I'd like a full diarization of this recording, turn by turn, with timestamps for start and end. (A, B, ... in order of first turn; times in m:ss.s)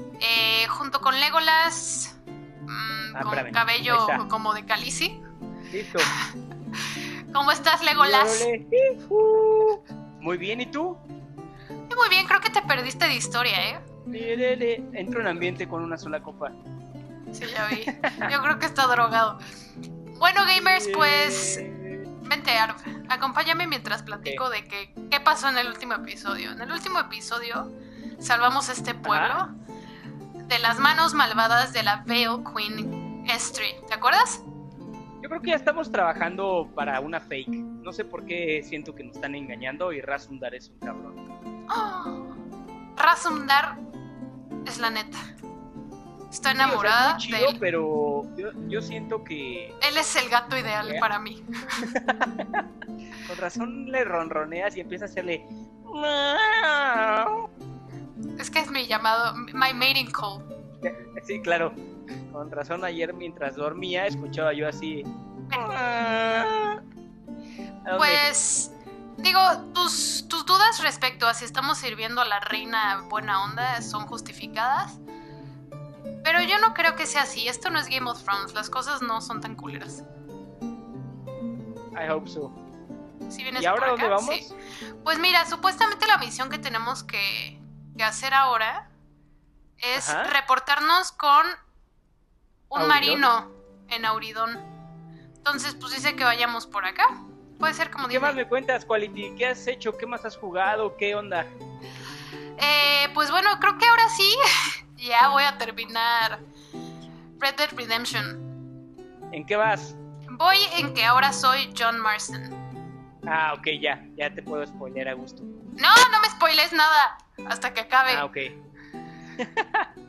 0:00.2-0:02.2 A
0:02.7-0:05.2 A
0:03.1-0:04.2 B
0:05.7-0:06.1 B
0:06.9-0:08.5 A
0:08.0-0:11.0 B
0:11.9-0:13.8 A
0:14.1-0:16.5 B
0:17.3-0:19.4 A
0:18.0-0:18.3 B
0:20.1-0:21.6 A
0:20.6-0:22.0 B
0:22.2-0:29.5 A
0:24.2-0:24.4 B
0:29.0-0:29.4 B
0:30.4-0:34.4 A
0:35.2-0:41.2 B
0:41.7-0:42.3 A
0:43.0-0:43.8 A
0:44.6-0:45.2 A
0:46.3-0:47.6 A
0:46.6-0:49.8 B
0:49.8-0:51.8 A
0:51.8-0:52.7 B
0:53.2-0:57.5 B
0:58.4-1:00.4 A
1:00.8-1:01.8 B
1:02.3-1:06.8 B
1:07.8-1:08.2 B
1:07.9-1:15.0 A
1:16.2-1:20.0 A
1:21.9-1:22.6 B
1:23.3-1:24.4 A
1:23.6-1:24.5 B
1:25.0-1:28.8 A
1:29.8-1:31.6 A
1:29.9-1:30.3 B
1:32.7-1:34.6 A
1:32.7-1:33.3 B
1:35.4-1:38.4 A
1:38.0-1:41.5 B
1:42.6-1:46.4 A
1:47.4-1:48.4 A
1:49.3-1:50.0 B
1:50.3-1:52.6 A
1:53.2-1:55.5 B
1:55.8-1:58.2 A
1:58.1-1:58.6 B
1:59.4-1:59.9 B